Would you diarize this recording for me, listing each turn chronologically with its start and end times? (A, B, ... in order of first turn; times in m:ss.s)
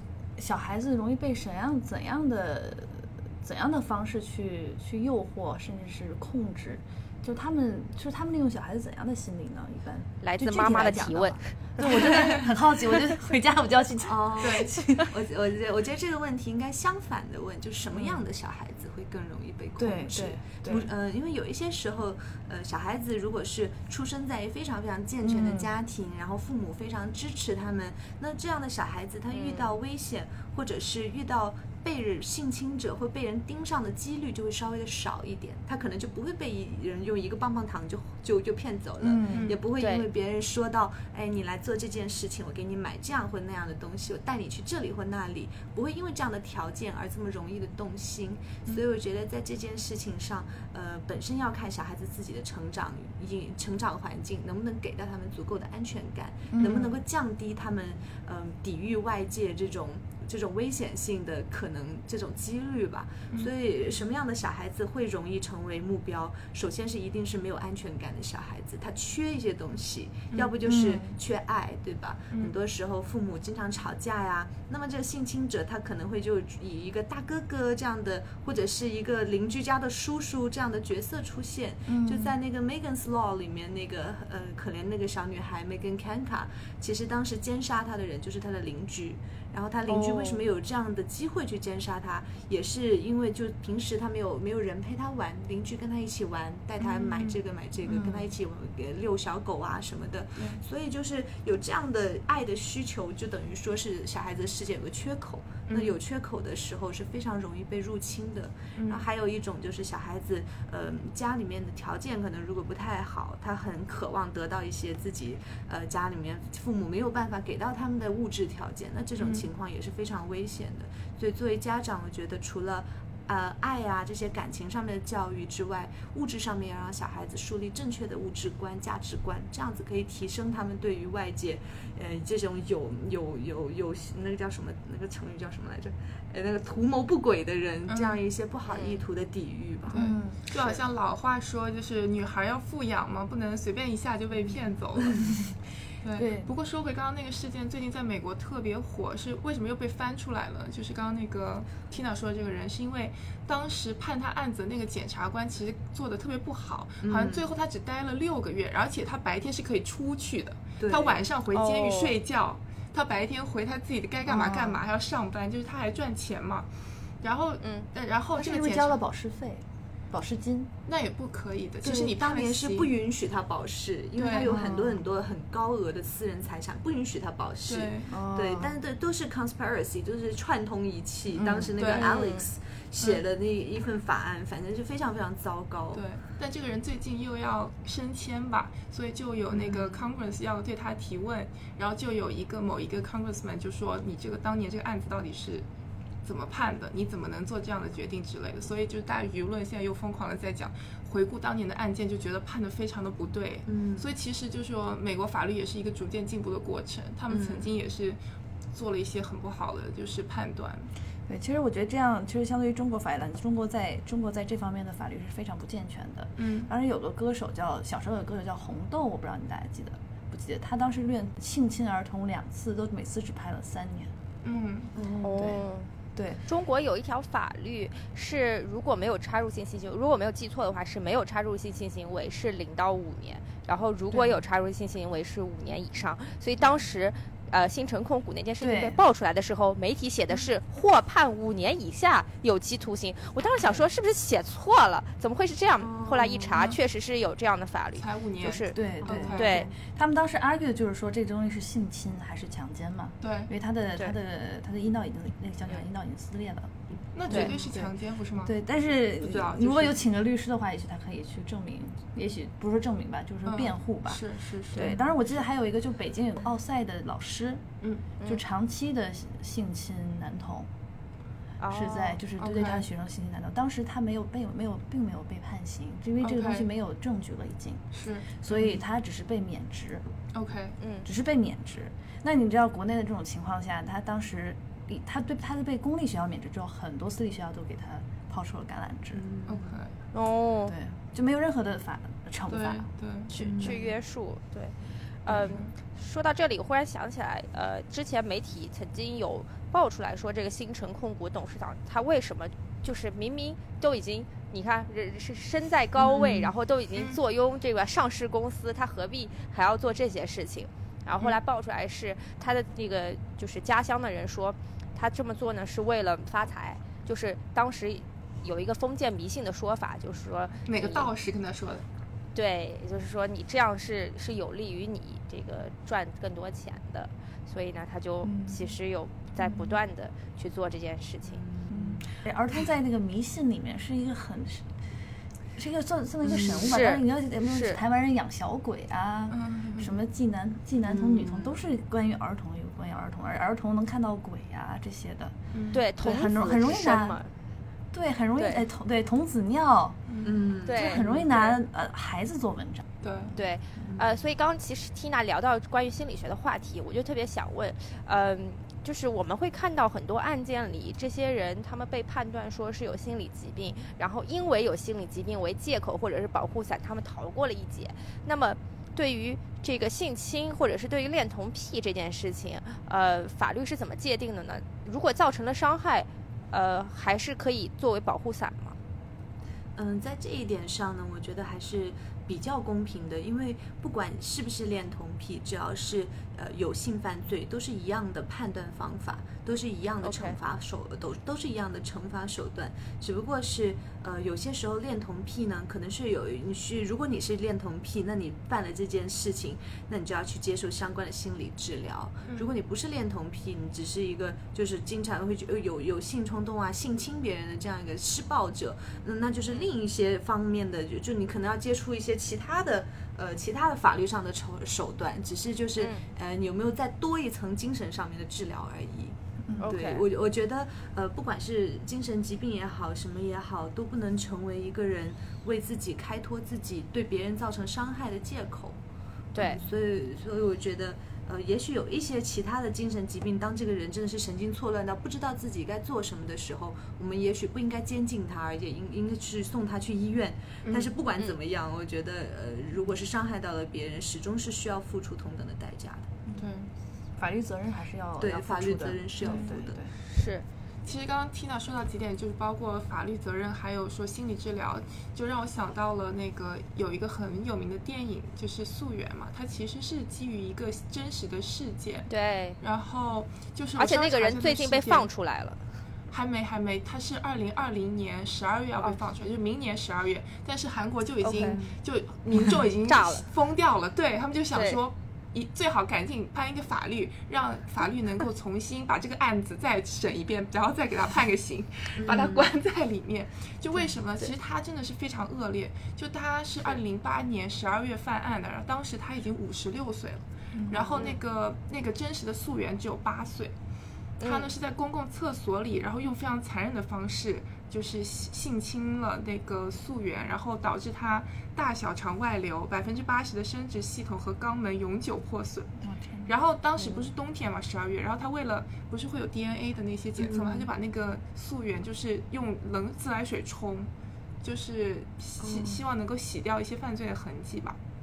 0:00.4-0:15.1 A
0:10.2-0:11.5 B
0:14.0-2:20.0 C
0:14.4-0:14.7 D
0:17.9-0:18.2 A
0:19.8-0:20.9 A
0:25.2-0:25.7 A
0:29.3-0:29.7 B
0:39.0-0:39.6 A
0:39.3-0:39.6 D
0:39.8-0:40.1 B
0:56.5-0:57.0 A
1:10.6-1:11.2 A
1:21.9-1:22.4 A
1:29.9-1:30.4 B
1:36.8-1:37.4 D
1:37.9-1:38.2 A
1:45.7-1:46.0 D
1:48.8-1:49.0 D
1:59.2-1:59.5 D
2:17.9-2:18.2 D
2:18.7-2:19.0 B
2:19.9-2:25.4 D
2:19.9-2:20.4 A
2:20.5-2:20.8 C
2:26.0-2:46.7 D
2:26.2-2:26.5 A
2:37.0-2:37.4 C
2:40.8-2:41.2 C
2:41.5-2:42.2 B
2:44.3-2:44.8 A
2:47.2-2:49.0 D
2:47.6-2:47.9 B
2:48.4-2:50.7 A
2:50.9-2:52.9 D
2:51.8-3:06.0 C
2:54.2-2:54.6 D
2:54.4-2:55.0 A
2:57.6-2:58.1 D
2:58.1-2:58.8 A
3:01.4-3:01.8 A
3:01.8-3:02.2 D
3:01.8-3:02.5 B
3:05.9-3:15.7 D
3:09.5-3:10.1 C
3:16.2-3:28.2 D
3:23.7-3:24.1 C
3:27.3-3:27.7 C
3:28.7-3:30.9 D
3:31.3-3:44.1 A
3:36.4-3:36.7 D
3:44.4-3:44.9 D
3:44.9-3:45.5 C
3:45.2-3:45.9 B
3:45.4-3:45.6 A
3:46.2-3:46.4 A
3:46.4-4:08.8 B
3:54.1-3:54.4 A
3:58.6-3:59.0 A
4:05.8-4:06.6 C
4:08.0-4:09.7 D
4:08.7-4:16.7 A
4:09.0-4:09.8 C
4:09.3-4:09.7 B
4:13.2-4:13.5 D
4:17.2-4:18.5 D
4:17.3-4:27.6 A
4:19.2-4:20.0 D
4:23.4-4:25.0 D
4:24.7-4:25.0 B
4:28.2-4:30.7 A
4:31.6-4:32.2 B
4:31.7-4:37.8 A
4:32.4-4:32.9 D
4:36.2-4:36.7 D
4:37.9-4:38.8 D
4:38.4-4:40.1 A
4:40.3-4:40.8 D
4:40.8-4:41.1 B
4:41.0-4:49.2 A
4:49.1-4:49.8 C
4:49.5-4:49.9 D
4:50.1-4:50.8 B
4:50.7-4:52.9 A
4:52.5-4:53.3 D
4:53.3-5:21.1 B
4:53.4-4:53.9 C
5:20.7-5:21.8 D
5:22.3-5:31.4 B
5:28.2-5:28.6 A
5:31.3-5:32.0 C
5:31.7-5:34.7 A
5:35.6-5:45.4 A
5:36.2-5:36.7 C
5:36.6-5:37.8 B
5:39.3-5:40.0 D
5:40.8-5:41.6 C
5:45.5-5:45.8 D
5:45.7-5:47.3 B
5:46.0-5:47.2 A
5:47.9-5:50.0 A
5:48.4-5:48.6 B
5:50.1-5:50.4 D
5:50.2-5:51.3 C
5:50.6-5:51.6 B
5:50.7-5:52.9 A
5:53.0-5:53.3 D
5:53.4-6:18.8 B
5:53.8-5:54.1 C
6:19.8-7:08.8 C
6:30.0-6:30.4 B
6:42.2-6:42.5 D
6:55.8-6:56.0 B
6:59.5-6:59.7 A
6:59.6-7:00.0 B
7:09.3-7:09.6 B
7:09.4-7:26.1 C
7:20.6-7:20.9 D
7:26.4-7:26.7 D
7:27.2-7:29.9 A
7:28.2-7:29.8 C
7:29.2-7:29.5 D
7:30.0-7:30.5 B
7:30.8-7:42.1 D
7:42.1-7:42.6 B
7:42.6-7:45.1 D
7:43.8-7:45.6 B
7:46.1-8:13.5 D
7:51.2-7:51.6 B
7:51.5-7:51.8 C
7:52.9-7:53.3 B
7:54.5-7:54.8 B
8:02.0-8:02.5 C
8:10.6-8:11.0 A
8:14.2-8:14.5 B
8:14.2-8:25.7 D
8:25.8-8:26.3 A
8:26.3-8:33.9 D
8:30.2-8:30.7 C
8:34.4-8:37.8 D
8:35.4-8:35.8 C